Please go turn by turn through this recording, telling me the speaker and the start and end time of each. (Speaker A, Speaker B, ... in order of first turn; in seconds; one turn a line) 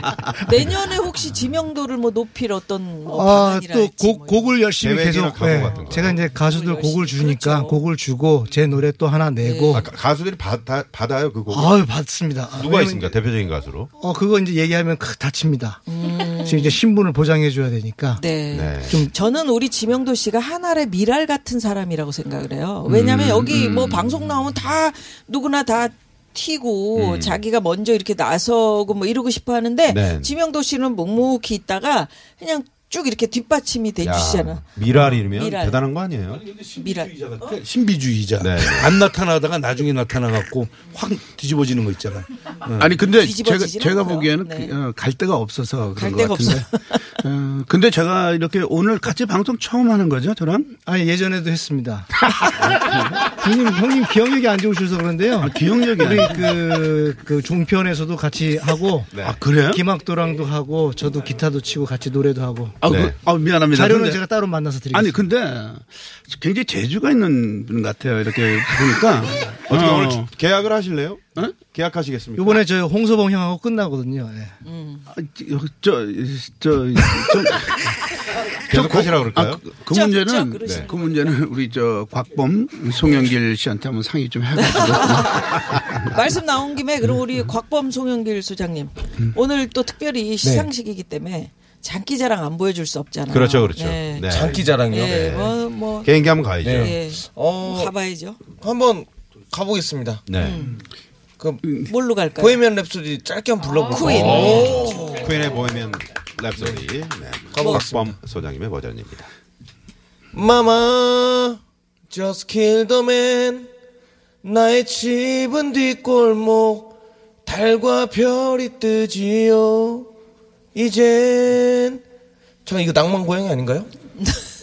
Speaker A: 0.4-4.7
Speaker B: 3.1-9.9
Speaker C: 4.8-6.2
Speaker A: 5.6-7.8
Speaker A: 9.4-9.8
Speaker C: 9.7-11.8
Speaker B: 11.5-13.1
Speaker C: 12.6-13.9
Speaker B: 14.0-15.9
Speaker A: 15.9-16.8
Speaker B: 16.4-18.4
Speaker A: 18.2-34.7
Speaker C: 18.5-19.0
Speaker C: 22.9-24.1
Speaker C: 27.0-27.4
Speaker C: 29.9-30.3
Speaker C: 34.0-36.4
Speaker A: 35.3-35.8
Speaker D: 36.3-42.9
Speaker A: 36.8-37.6
Speaker C: 38.4-39.0
Speaker E: 42.9-46.7
Speaker A: 43.0-44.7
Speaker A: 46.0-47.1
Speaker E: 47.2-50.7
Speaker B: 50.9-62.9
Speaker E: 55.4-56.9
Speaker C: 59.1-59.4
Speaker E: 59.2-59.8
Speaker C: 62.8-63.2
Speaker E: 62.8-64.2
Speaker B: 63.7-65.3
Speaker E: 65.0-70.3
Speaker C: 69.7-72.6
Speaker B: 72.4-74.5
Speaker A: 74.7-75.0
Speaker E: 75.1-77.8
Speaker C: 78.7-79.6
Speaker E: 78.8-85.3
Speaker A: 79.9-81.4
Speaker C: 80.6-80.9
Speaker A: 84.6-98.4
Speaker F: 90.4-90.7
Speaker C: 93.3-97.0
Speaker F: 94.3-95.2
Speaker F: 96.6-100.2
Speaker C: 100.3-100.6
Speaker A: 100.4-100.8
Speaker F: 101.4-105.3
Speaker A: 101.8-102.6
Speaker A: 103.9-105.2
Speaker C: 104.2-109.3
Speaker F: 107.5-108.1
Speaker F: 110.3-111.6
Speaker F: 112.1-113.7
Speaker F: 114.4-117.0
Speaker F: 117.5-120.1
Speaker F: 120.7-122.0
Speaker F: 122.7-123.9
Speaker A: 124.2-124.5